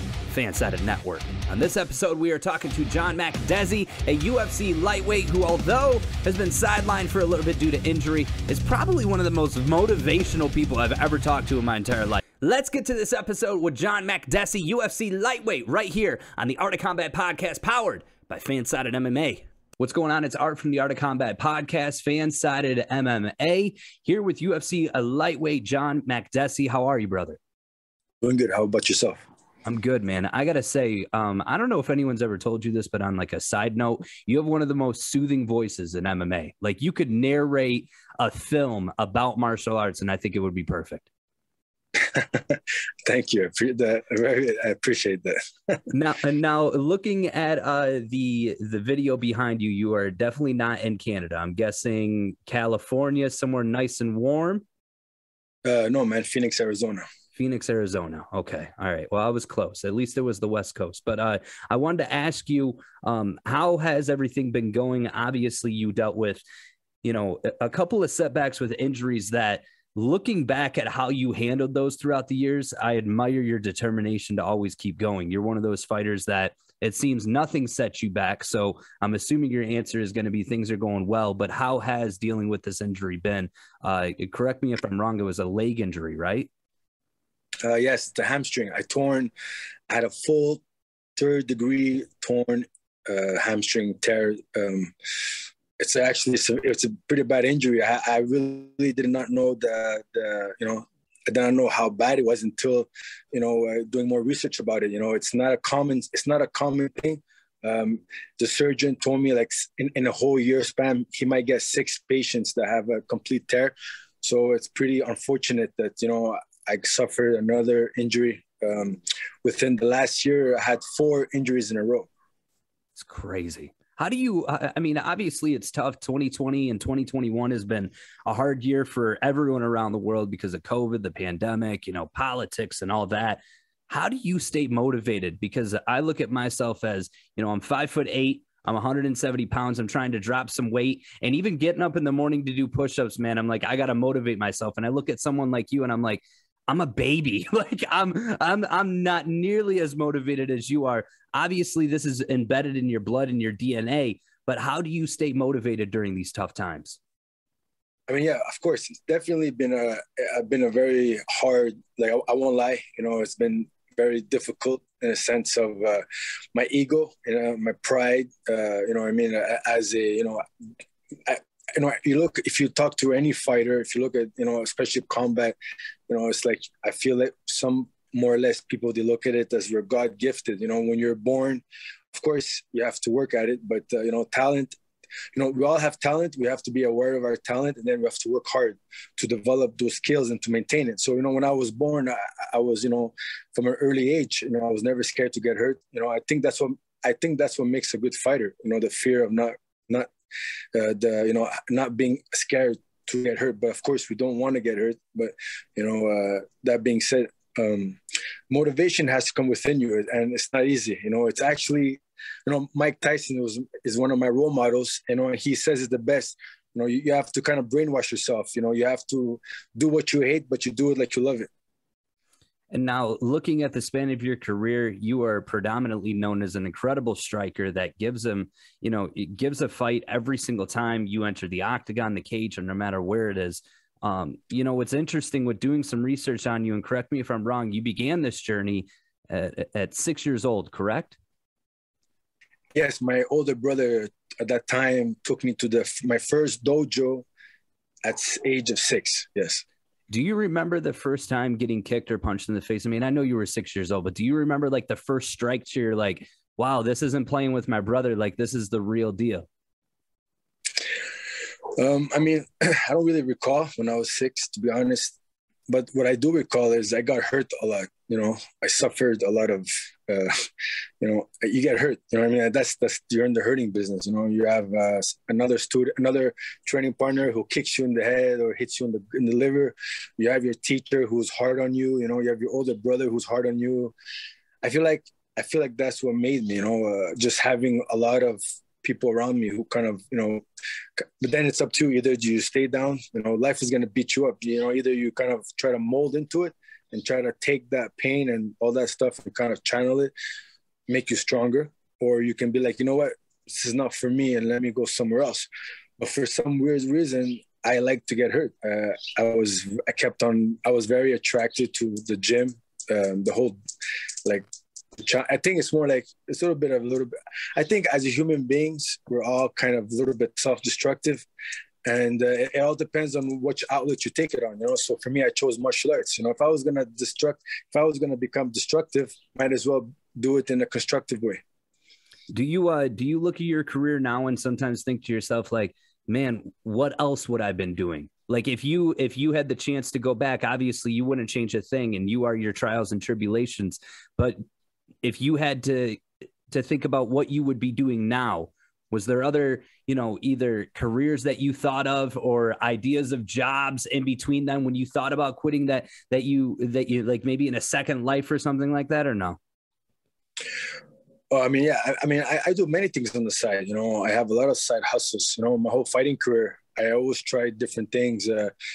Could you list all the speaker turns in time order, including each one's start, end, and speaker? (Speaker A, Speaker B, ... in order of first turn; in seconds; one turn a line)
Speaker A: 0.3-27.4
Speaker B: 28.2-29.2
Speaker A: 29.6-41.1
Speaker B: 42.0-45.8
Speaker A: 45.9-54.6
Speaker B: 55.6-57.0
Speaker A: 57.4-66.4
Speaker A: 67.0-86.5
Speaker B: 87.6-89.3
Speaker B: 89.9-90.6
Speaker B: 91.2-122.1
Speaker A: 123.0-157.0
Speaker B: 158.1-166.0
Speaker B: 166.6-170.4
Speaker B: 171.3-175.6
Speaker B: 176.1-184.8
Speaker B: 185.3-200.1
Speaker B: 200.7-208.0
Speaker B: 208.5-221.5
Speaker A: 222.7-241.2
Speaker B: 242.8-247.3
Speaker B: 248.1-249.6
Speaker A: 250.1-259.5
Speaker B: 261.8-265.1
Speaker B: 265.7-270.3
Speaker B: 271.0-283.9
Speaker B: 284.6-290.4
Speaker B: 291.0-300.1
Speaker B: 300.9-305.5
Speaker B: 306.0-313.6
Speaker B: 315.0-321.2
Speaker B: 321.9-331.4
Speaker A: 332.3-344.4
Speaker A: 345.0-359.4
Speaker B: 361.3-368.5